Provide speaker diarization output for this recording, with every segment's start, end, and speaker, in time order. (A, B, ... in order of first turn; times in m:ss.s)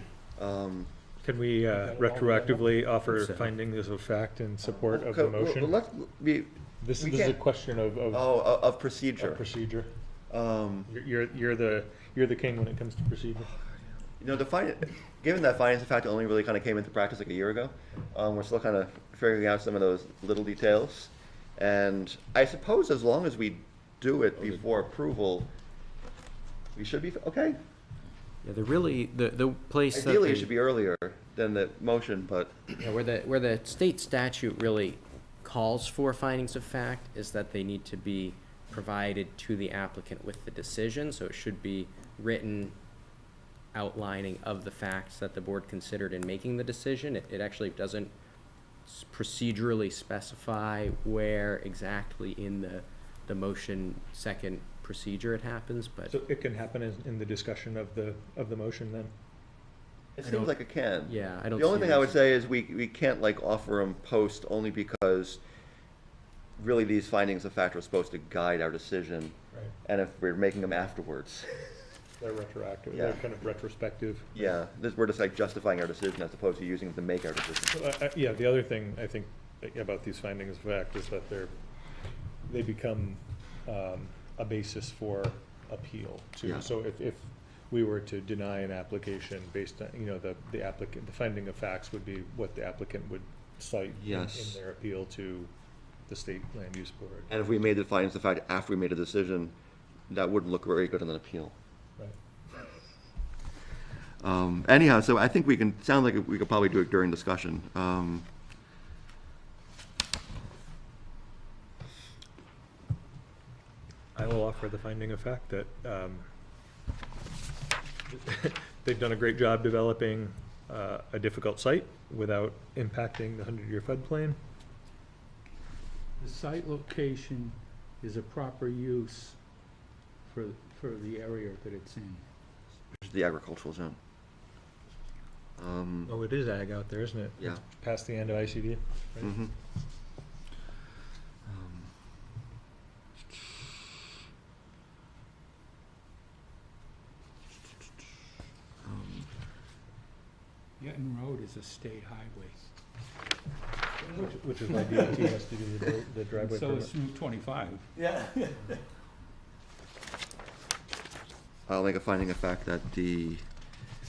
0:00.4-0:00.9 A
0:01.2-0:05.8 B
0:01.6-0:02.8 C
0:03.2-0:03.5 D
0:04.7-0:07.4 A
0:06.8-0:08.3 B
0:08.1-0:09.4 A
0:09.2-0:09.9 B
0:10.3-0:10.9 A
0:10.9-0:13.5 B
0:13.6-0:25.5 A
0:26.8-0:27.6 A
0:28.4-0:30.5 D
0:29.9-0:32.7 A
0:32.8-0:42.8 D
0:43.7-0:48.1 D
0:48.8-0:56.1 D
0:56.1-0:59.1 B
1:00.2-1:05.4 A
1:00.2-1:02.2 D
1:06.6-1:11.5 A
1:12.2-1:14.5 B
1:12.9-1:13.2 A
1:14.3-1:17.8 A
1:17.7-1:21.5 B
1:22.5-1:35.5 B
1:26.4-1:26.7 A
1:34.0-1:34.6 A
1:36.1-1:37.3 B
1:37.3-1:39.5 A
1:40.1-1:41.5 A
1:44.2-1:48.3 A
1:54.2-1:56.2 B
1:58.1-2:04.4 B
2:06.2-2:09.4 C
2:10.2-2:12.2 C
2:13.0-2:14.0 A
2:15.6-2:16.2 A
2:16.0-2:19.3 B
2:19.2-2:19.5 A
2:21.4-2:21.9 A
2:28.8-2:29.3 A
2:30.8-2:32.6 C
2:34.1-2:36.9 B
2:36.3-2:38.8 C
2:41.7-2:43.4 A